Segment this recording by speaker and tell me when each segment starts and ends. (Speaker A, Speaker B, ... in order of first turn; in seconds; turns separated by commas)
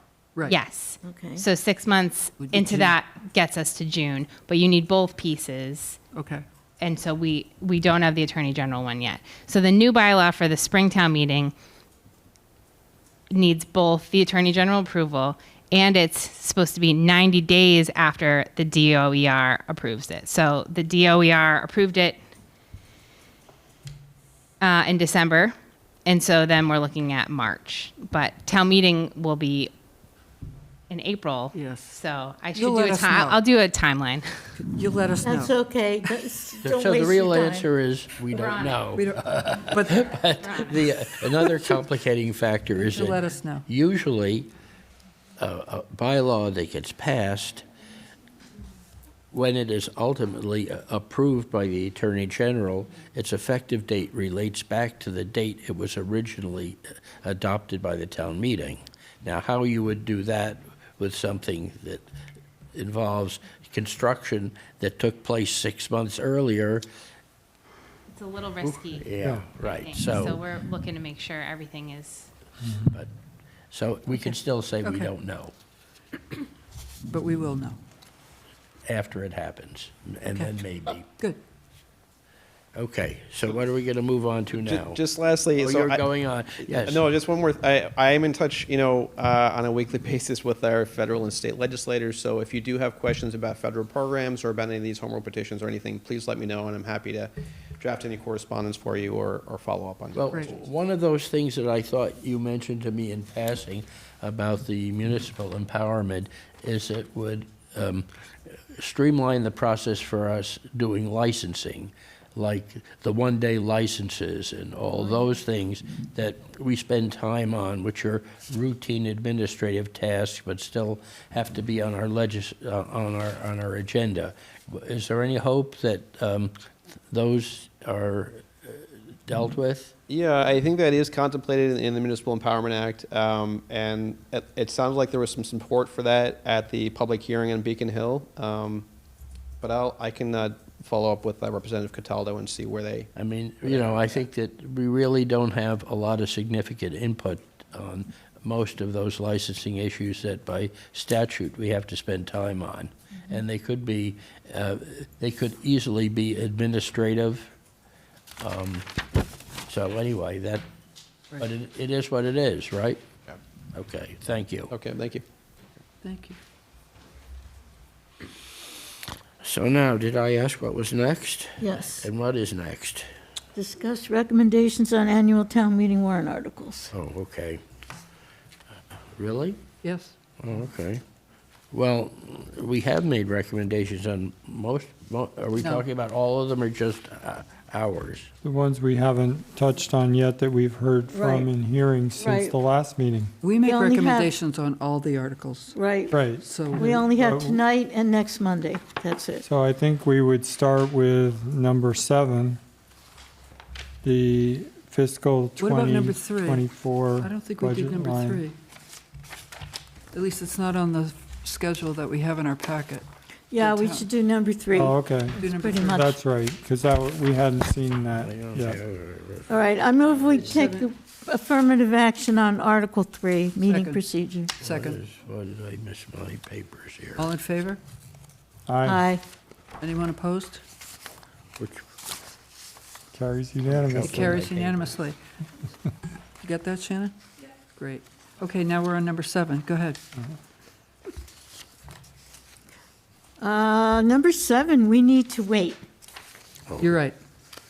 Speaker A: 0.5-6.0, Speaker B: 1.0-1.4, Speaker C: 2.4-3.0, Speaker C: 6.1-6.5, Speaker A: 6.8-11.5, Speaker A: 13.3-22.2, Speaker A: 24.6-25.5, Speaker A: 26.1-29.7, Speaker A: 30.9-34.5, Speaker C: 31.5-32.0, Speaker C: 32.5-33.4, Speaker C: 34.6-35.5, Speaker B: 35.2-37.7, Speaker D: 36.6-44.5, Speaker A: 38.3-38.8, Speaker C: 38.9-40.0, Speaker A: 40.1-40.9, Speaker C: 42.7-43.7, Speaker D: 45.4-47.6, Speaker D: 49.3-62.0, Speaker D: 62.8-66.9, Speaker A: 68.1-69.1, Speaker D: 68.6-70.4, Speaker A: 69.6-72.3, Speaker D: 73.7-75.5, Speaker C: 74.8-75.1, Speaker C: 77.1-77.8, Speaker D: 78.9-81.1, Speaker C: 80.3-81.4, Speaker D: 82.7-85.0, Speaker E: 84.6-86.1, Speaker D: 85.6-87.0, Speaker E: 86.6-100.5, Speaker D: 100.2-108.1, Speaker D: 108.7-126.5, Speaker D: 127.1-129.9, Speaker E: 130.1-138.9, Speaker E: 139.6-143.1, Speaker D: 143.2-157.5, Speaker E: 143.6-144.2, Speaker D: 158.4-158.9, Speaker D: 159.7-160.7, Speaker D: 161.3-163.0, Speaker D: 163.7-164.7, Speaker E: 164.7-165.2, Speaker C: 166.0-166.4, Speaker D: 169.4-173.1, Speaker B: 171.6-172.1, Speaker B: 173.6-176.9, Speaker D: 176.9-177.6, Speaker D: 179.2-179.6, Speaker C: 179.8-180.1, Speaker D: 180.4-181.0, Speaker D: 181.7-188.3, Speaker C: 185.6-185.8, Speaker F: 188.4-193.3, Speaker B: 191.1-191.5, Speaker B: 192.2-192.6, Speaker C: 193.4-195.8, Speaker B: 193.6-194.3, Speaker B: 195.8-199.5, Speaker F: 196.1-197.6, Speaker C: 196.3-197.2, Speaker F: 199.4-202.6, Speaker F: 204.0-208.4, Speaker C: 205.6-206.7, Speaker C: 207.2-208.6, Speaker C: 210.1-213.1, Speaker B: 213.5-216.2, Speaker C: 213.6-214.1, Speaker F: 214.7-215.4, Speaker C: 214.8-216.1, Speaker F: 215.9-218.8, Speaker D: 218.2-220.6, Speaker B: 219.5-224.5, Speaker C: 220.4-220.9, Speaker C: 223.7-224.0, Speaker C: 224.6-225.0, Speaker D: 224.6-227.3, Speaker C: 227.2-227.8, Speaker F: 228.7-229.1, Speaker B: 228.8-229.2, Speaker C: 229.8-230.6, Speaker F: 233.1-234.4, Speaker D: 233.7-235.0, Speaker C: 234.0-235.2, Speaker C: 236.4-237.2, Speaker C: 237.7-240.0, Speaker B: 243.4-245.8, Speaker D: 246.7-247.0, Speaker C: 246.8-247.2